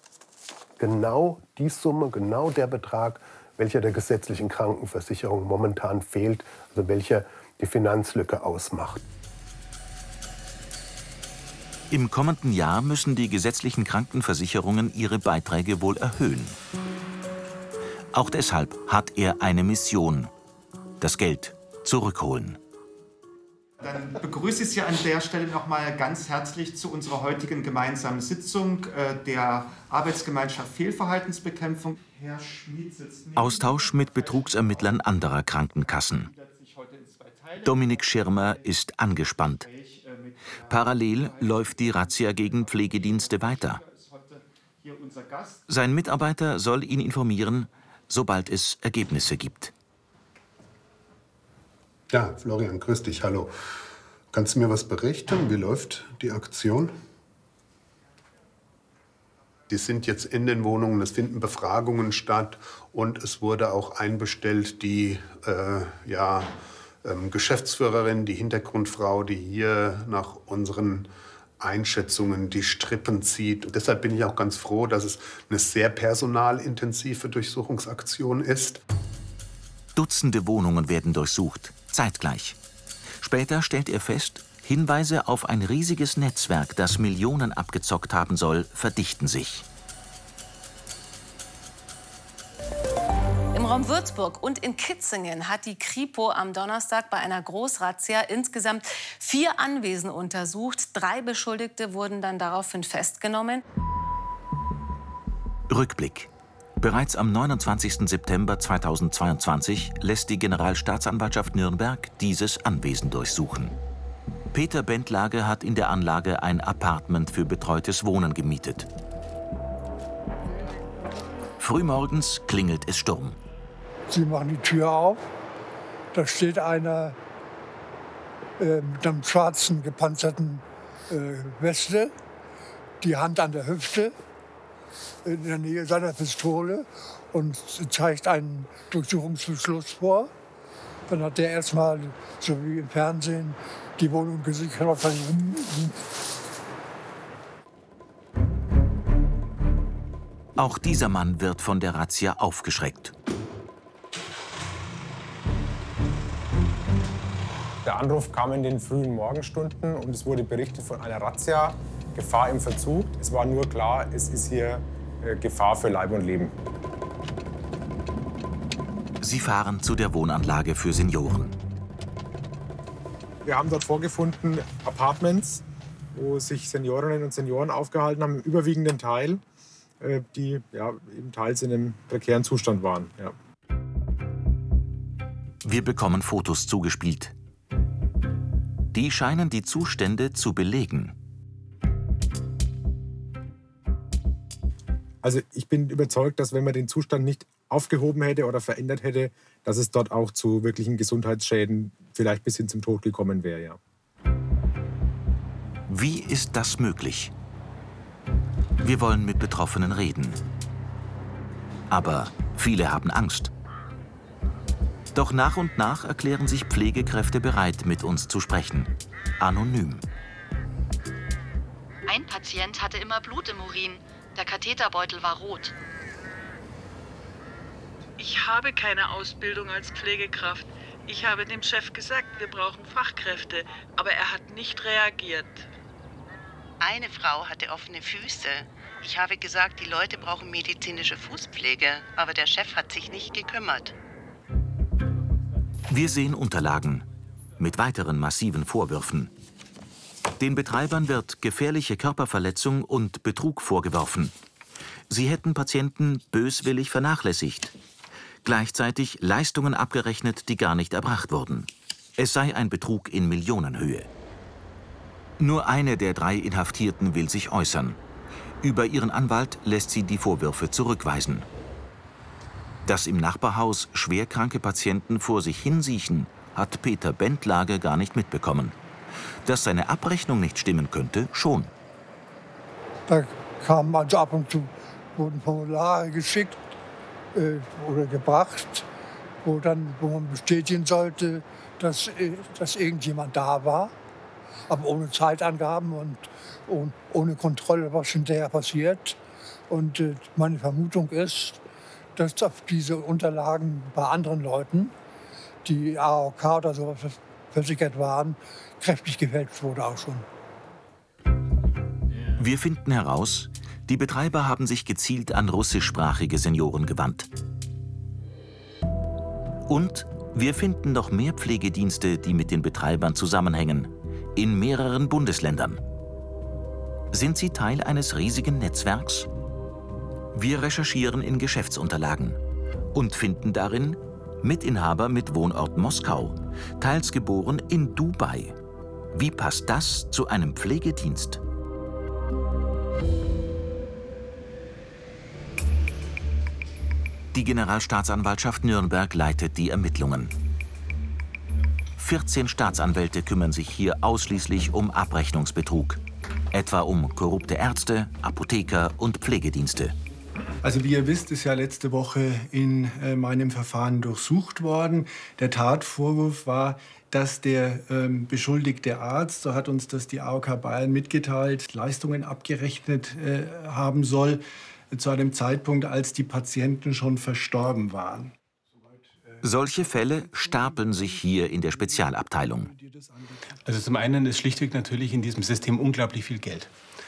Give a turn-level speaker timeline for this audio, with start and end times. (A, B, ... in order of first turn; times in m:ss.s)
0:00.8-0:09.0 A
0:11.9-0:16.6 B
0:18.1-0:20.3 B
0:21.0-0:22.6 B
0:23.8-0:35.1 C
0:33.4-0:36.3 B
0:35.8-0:38.7 C
0:37.6-0:39.7 B
0:39.4-0:45.6 C
0:40.7-0:43.8 B
0:45.7-0:49.7 B
0:52.1-0:53.5 D
0:54.3-0:56.9 D
0:59.7-1:06.5 D
1:07.0-1:11.1 D
1:11.6-1:18.8 D
1:20.0-1:22.6 B
1:23.2-1:29.6 B
1:33.5-1:43.6 E
1:45.7-1:53.8 B
1:54.5-1:58.9 B
2:01.6-2:03.4 B
2:04.1-2:05.2 F
2:06.1-2:07.2 F
2:08.6-2:12.1 F
2:13.0-2:14.1 F
2:15.2-2:20.3 F
2:21.1-2:26.0 F
2:30.6-2:33.1 B
2:37.8-2:46.5 G
2:49.2-2:51.6 B
2:53.4-2:59.4 G
3:00.0-3:03.3 G
3:05.6-3:07.3 B
3:08.9-3:11.2 B
3:15.2-3:23.8 G
3:25.9-3:27.3 B
3:28.8-3:30.4 B
3:31.9-3:33.5 B
3:35.1-3:38.9 B
3:39.4-3:40.0 B
3:42.1-3:45.7 H
3:48.2-3:55.7 I
3:56.8-4:03.9 J
4:05.9-4:07.0 B
4:07.6-4:09.3 B
4:10.4-4:14.3 B
4:15.1-4:17.7 B
4:18.4-4:24.1 B
4:25.4-4:28.0 B
4:28.6-4:31.5 B
4:32.8-4:38.8 B
4:39.4-4:41.7 B
4:43.1-4:46.6 F
4:47.3-4:48.9 F
4:49.4-4:53.9 F
4:54.7-5:01.6 F
5:02.1-5:04.9 F
5:05.6-5:10.2 F
5:12.4-5:17.3 B
5:19.7-5:25.8 B
5:27.1-5:29.3 B
5:30.3-5:32.4 B
5:32.9-5:38.6 B
5:39.1-5:41.4 B
5:47.3-5:50.3 B
5:52.0-5:56.0 B
5:56.5-6:00.0 B
6:00.6-6:18.4 K
6:19.4-6:22.7 B
6:23.6-6:26.7 L